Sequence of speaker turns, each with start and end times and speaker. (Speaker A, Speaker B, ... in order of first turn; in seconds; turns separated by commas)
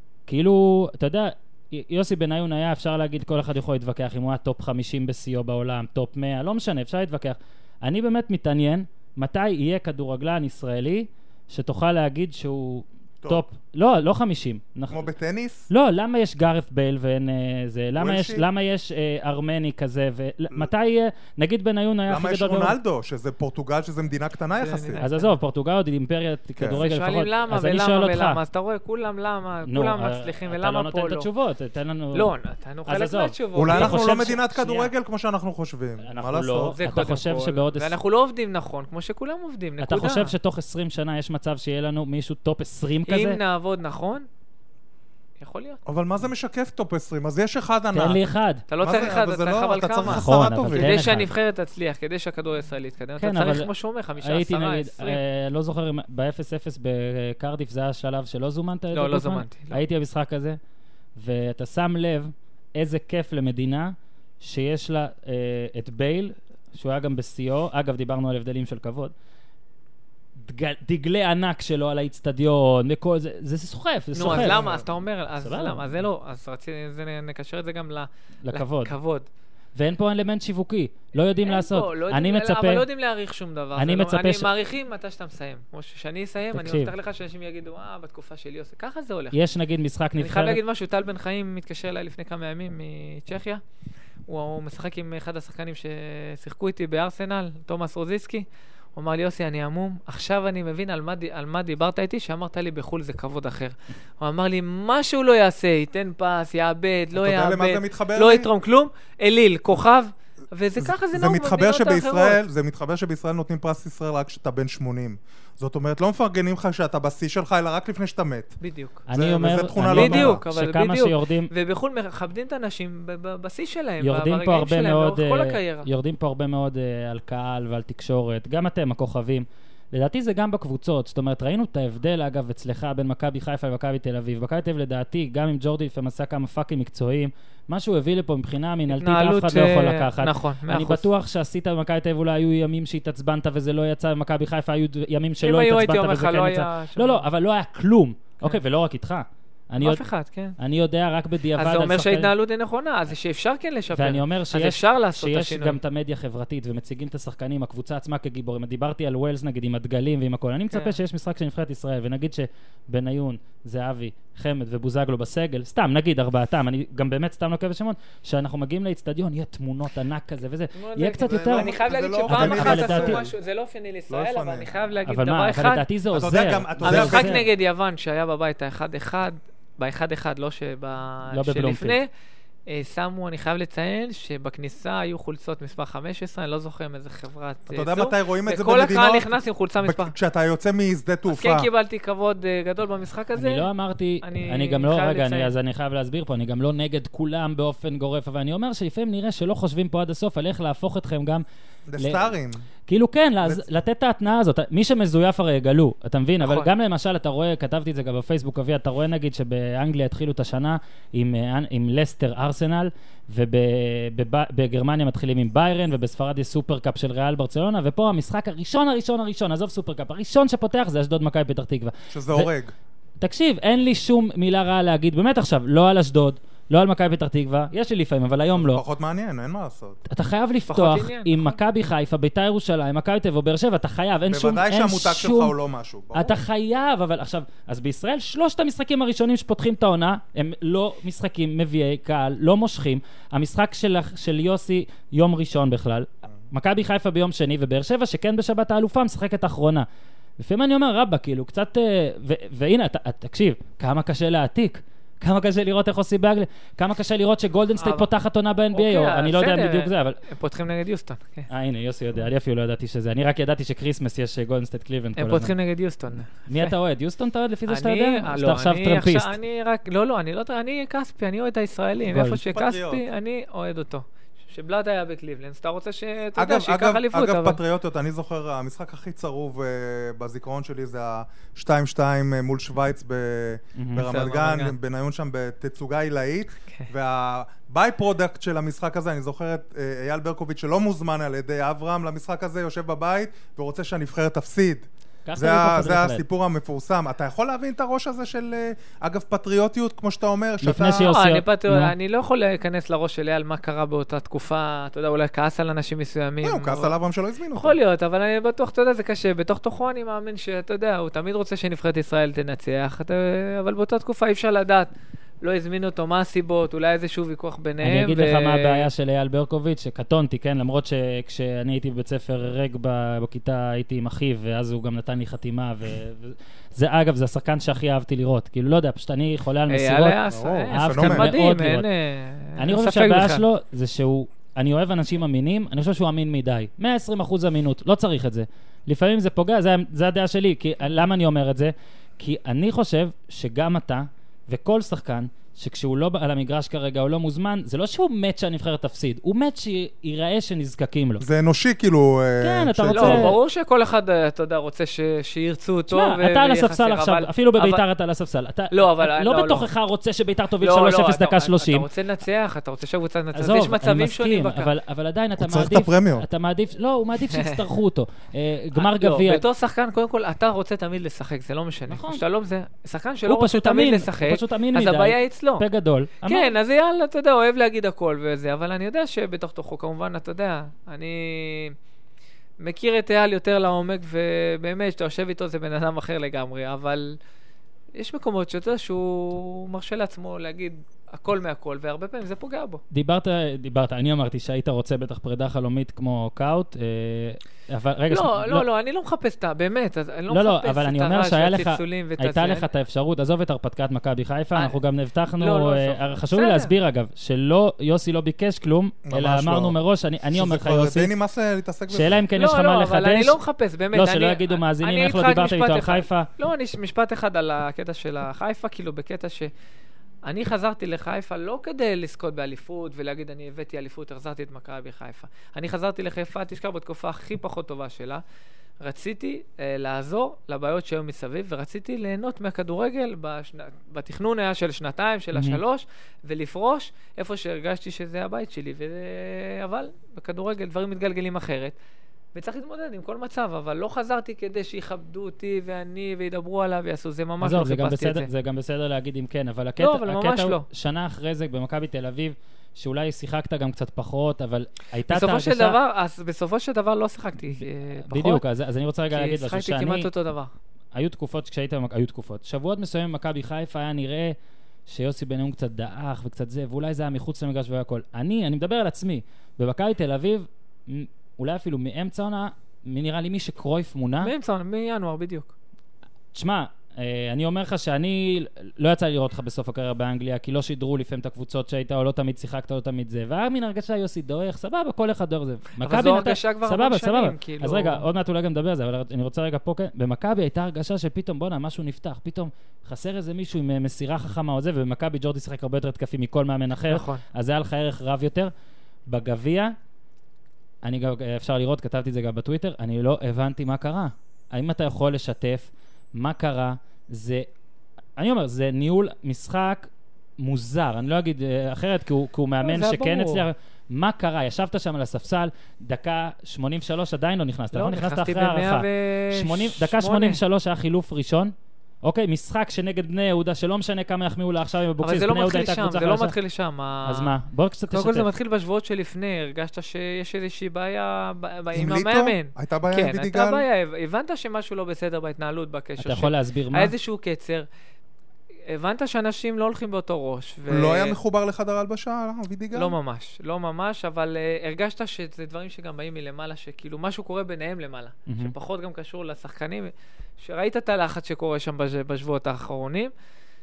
Speaker A: 0.3-15.1, Speaker B: 14.9-15.7, Speaker A: 15.7-22.7, Speaker B: 18.0-18.4, Speaker B: 22.1-25.0, Speaker C: 24.6-25.3, Speaker A: 25.0-28.4, Speaker B: 26.6-26.8, Speaker C: 26.7-31.3, Speaker A: 29.6-32.3, Speaker C: 32.1-34.9, Speaker A: 32.9-34.4, Speaker B: 33.5-36.8, Speaker A: 36.0-37.9, Speaker C: 36.8-40.3, Speaker A: 39.8-43.4, Speaker C: 43.1-44.3, Speaker C: 45.4-45.8, Speaker B: 45.8-48.2, Speaker A: 47.9-48.6, Speaker C: 48.7-55.2, Speaker B: 48.8-51.1, Speaker A: 50.0-51.3, Speaker A: 53.2-53.7, Speaker A: 54.2-60.6, Speaker C: 58.9-59.8, Speaker A: 61.1-69.1, Speaker A: 70.4-74.7, Speaker C: 74.1-79.3, Speaker B: 74.2-74.9, Speaker A: 75.4-76.0, Speaker A: 78.4-78.9, Speaker A: 79.8-82.8, Speaker C: 81.4-89.4, Speaker A: 83.8-84.5, Speaker A: 86.5-86.9, Speaker A: 89.3-90.6, Speaker C: 90.2-93.6, Speaker C: 94.3-112.4, Speaker B: 107.1-108.5, Speaker B: 110.8-118.6, Speaker C: 118.6-119.0, Speaker A: 119.1-121.5, Speaker B: 119.1-120.4, Speaker C: 119.8-125.9, Speaker A: 124.0-150.0, Speaker C: 138.9-141.1, Speaker C: 145.4-147.2, Speaker C: 149.8-150.6, Speaker A: 150.6-152.3, Speaker C: 151.5-155.8, Speaker A: 153.9-171.7, Speaker C: 160.7-161.0, Speaker C: 170.7-175.9, Speaker B: 171.2-173.3, Speaker A: 172.3-173.2, Speaker B: 174.1-174.7, Speaker A: 175.1-177.4, Speaker B: 176.1-177.4, Speaker C: 176.8-182.1, Speaker A: 181.3-182.0, Speaker C: 182.7-190.1, Speaker B: 187.7-191.7, Speaker C: 191.3-193.7, Speaker A: 193.3-201.4, Speaker C: 194.2-195.5, Speaker B: 201.9-202.6, Speaker A: 202.0-202.3, Speaker A: 202.9-222.5, Speaker C: 206.4-206.7, Speaker B: 222.1-222.7, Speaker A: 223.2-228.8, Speaker B: 228.5-230.0, Speaker A: 230.1-235.5, Speaker C: 230.7-231.6, Speaker B: 234.3-236.4, Speaker A: 236.1-249.8, Speaker A: 250.4-260.2, Speaker C: 257.8-258.1, Speaker C: 258.7-261.5, Speaker A: 261.5-265.5, Speaker C: 265.2-266.7, Speaker A: 266.5-269.3, Speaker C: 267.7-277.6, Speaker A: 272.0-272.4, Speaker B: 272.5-273.0, Speaker B: 276.4-301.1, Speaker A: 283.8-284.1, Speaker C: 284.0-284.7, Speaker A: 295.3-296.2, Speaker A: 300.6-301.9, Speaker C: 301.1-306.9, Speaker B: 306.4-307.8, Speaker C: 307.5-314.9, Speaker C: 315.4-318.9, Speaker A: 317.8-330.2, Speaker C: 329.7-333.4, Speaker B: 330.3-331.3, Speaker A: 330.7-331.9, Speaker A: 332.6-351.2, Speaker B: 351.2-353.3, Speaker A: 352.4-353.3, Speaker C: 352.9-357.8, Speaker A: 355.9-361.9, Speaker C: 358.7-359.7, Speaker C: 360.6-364.7, Speaker A: 363.3-369.4, Speaker B: 365.4-366.2, Speaker C: 367.3-367.6, Speaker C: 368.8-375.6, Speaker A: 371.9-372.2, Speaker A: 373.2-376.5, Speaker C: 376.2-381.8, Speaker C: 382.6-387.2, Speaker C: 387.9-392.8, Speaker A: 392.9-398.6, Speaker C: 398.1-402.7, Speaker A: 400.3-411.1, Speaker C: 405.4-406.7, Speaker B: 409.1-409.8, Speaker B: 410.3-412.2, Speaker A: 411.9-413.4, Speaker C: 412.4-419.5, Speaker A: 413.9-416.3, Speaker C: 420.2-428.2, Speaker C: 428.8-441.7, Speaker A: 435.3-435.6, Speaker C: 442.3-448.3, Speaker A: 447.4-455.8, Speaker C: 449.8-450.6, Speaker C: 455.1-458.4, Speaker A: 457.6-460.1, Speaker C: 459.1-460.5, Speaker A: 460.9-464.3, Speaker A: 464.9-474.3, Speaker C: 474.2-475.5, Speaker A: 476.3-498.5, Speaker C: 485.8-488.0, Speaker C: 496.9-497.2, Speaker A: 499.1-499.7, Speaker A: 500.8-507.5, Speaker A: 508.2-526.3, Speaker C: 512.6-513.5, Speaker C: 517.7-520.4, Speaker C: 525.0-527.3, Speaker A: 527.0-528.3, Speaker C: 527.9-537.7, Speaker B: 531.7-533.6, Speaker A: 536.0-536.9, Speaker C: 538.7-541.2, Speaker B: 540.7-543.0, Speaker C: 542.7-553.1, Speaker A: 548.3-548.5